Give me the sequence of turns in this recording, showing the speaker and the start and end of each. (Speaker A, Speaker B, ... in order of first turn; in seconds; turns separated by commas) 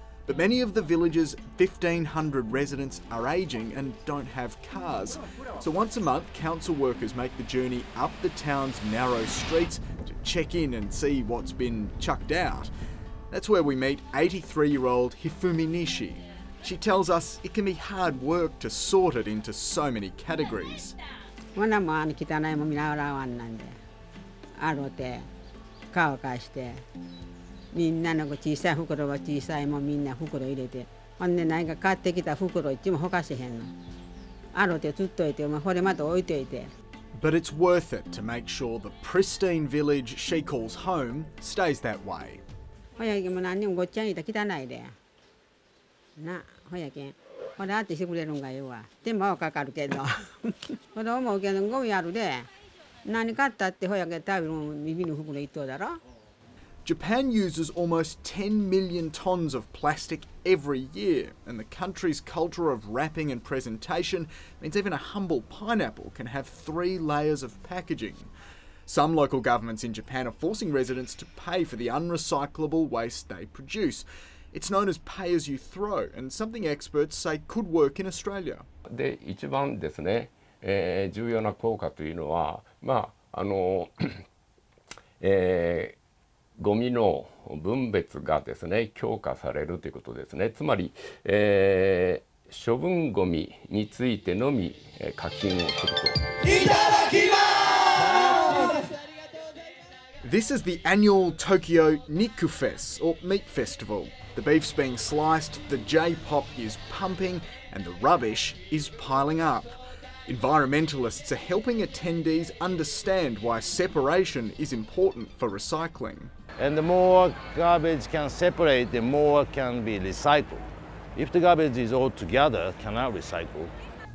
Speaker A: 0.2-12.7, Speaker A: 13.3-21.0, Speaker B: 21.6-23.7, Speaker B: 24.6-25.2, Speaker B: 25.9-26.8, Speaker B: 27.7-33.7, Speaker B: 34.5-36.7, Speaker A: 37.1-42.4, Speaker B: 43.0-44.9, Speaker B: 46.2-52.5, Speaker B: 53.0-56.0, Speaker A: 56.8-68.3, Speaker A: 68.9-78.7, Speaker C: 78.9-84.2, Speaker C: 85.2-86.0, Speaker C: 86.6-96.6, Speaker A: 100.2-116.3, Speaker D: 116.6-123.7